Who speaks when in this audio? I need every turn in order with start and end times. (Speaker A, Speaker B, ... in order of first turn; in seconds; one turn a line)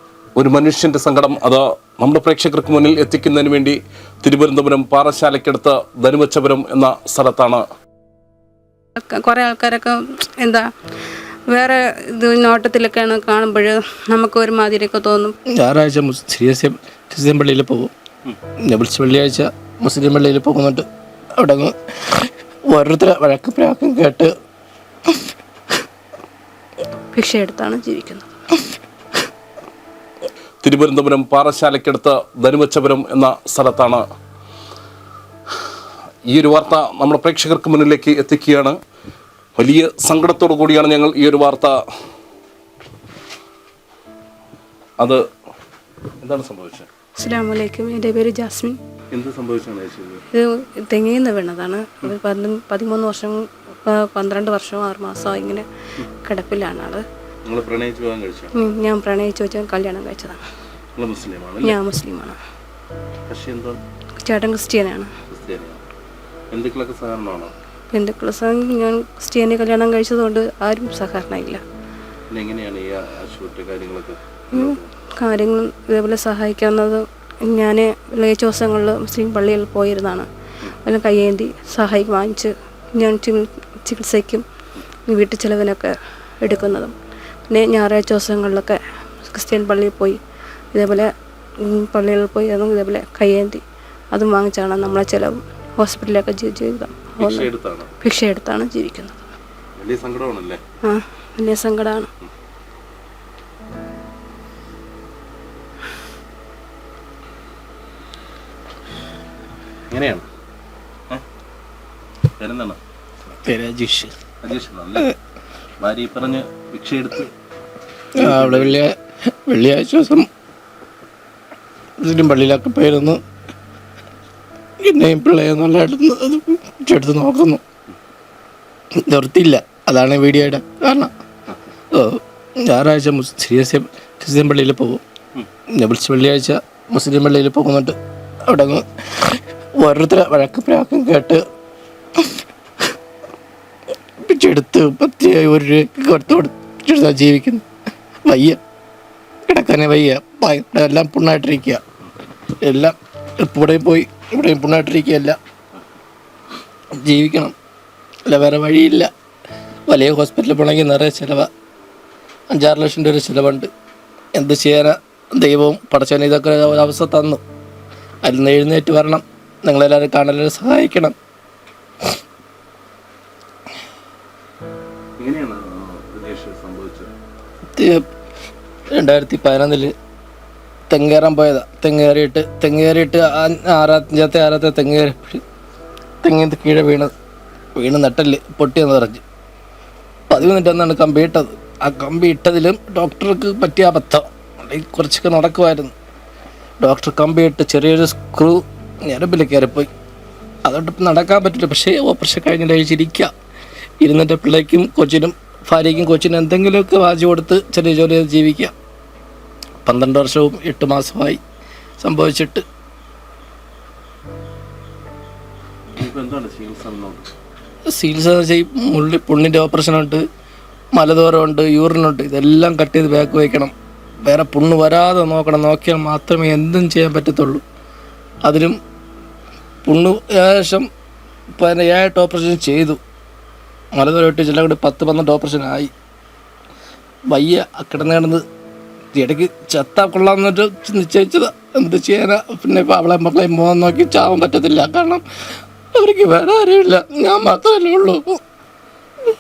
Speaker A: 0.4-7.6
Speaker B: 9.0-10.7
Speaker B: 11.5-15.3
Speaker C: 15.5-17.9
Speaker C: 18.7-20.9
Speaker C: 21.4-24.3
Speaker B: 27.1-28.3
Speaker A: 30.6-34.0
Speaker A: 36.3-38.8
Speaker A: 39.6-41.7
Speaker A: 46.2-46.9
Speaker B: 47.2-48.8
Speaker A: 49.1-50.2
Speaker B: 50.3-55.7
Speaker B: 56.2-57.0
Speaker A: 57.5-58.5
Speaker B: 58.5-60.4
Speaker A: 61.0-61.8
Speaker B: 61.6-62.4
Speaker A: 63.3-63.8
Speaker B: 64.2-65.1
Speaker A: 65.3-65.8
Speaker A: 66.5-67.5
Speaker B: 67.9-71.6
Speaker A: 72.3-74.9
Speaker B: 74.5-80.3
Speaker B: 80.8-84.4
Speaker B: 85.1-86.9
Speaker B: 87.5-90.2
Speaker B: 90.7-91.1
Speaker B: 91.6-97.5
Speaker A: 97.2-97.9
Speaker B: 98.0-99.2
Speaker A: 99.8-100.6
Speaker B: 100.9-102.1
Speaker A: 109.9-110.2
Speaker A: 112.4-112.8
Speaker C: 113.4-114.1
Speaker A: 114.4-115.1
Speaker A: 115.8-117.3
Speaker A: 118.2-118.8
Speaker C: 118.2-120.3
Speaker C: 122.0-123.2
Speaker C: 124.8-127.6
Speaker C: 128.9-131.1
Speaker C: 131.9-135.0
Speaker C: 135.8-141.4
Speaker C: 142.2-142.4
Speaker C: 144.2-147.6
Speaker C: 148.2-148.6
Speaker C: 149.5-151.8
Speaker C: 152.6-155.4
Speaker C: 157.0-157.5
Speaker C: 158.2-159.1
Speaker C: 159.9-161.5
Speaker C: 162.5-163.7
Speaker C: 164.3-167.4
Speaker C: 168.2-171.2
Speaker A: 175.2-177.1
Speaker C: 177.8-178.0
Speaker C: 178.9-179.9
Speaker C: 180.9-185.4
Speaker C: 186.2-187.1
Speaker C: 187.8-189.2
Speaker C: 190.3-195.9
Speaker C: 196.8-199.9
Speaker C: 200.7-203.3
Speaker C: 204.0-208.7
Speaker C: 209.8-211.4
Speaker C: 212.0-212.6
Speaker A: 216.0-217.3
Speaker C: 217.9-220.2
Speaker C: 220.9-223.7
Speaker C: 224.2-227.6
Speaker C: 228.4-228.8
Speaker C: 229.9-230.9
Speaker C: 231.6-233.0
Speaker C: 233.9-235.9
Speaker C: 237.3-238.4
Speaker C: 239.1-245.2
Speaker C: 245.9-248.4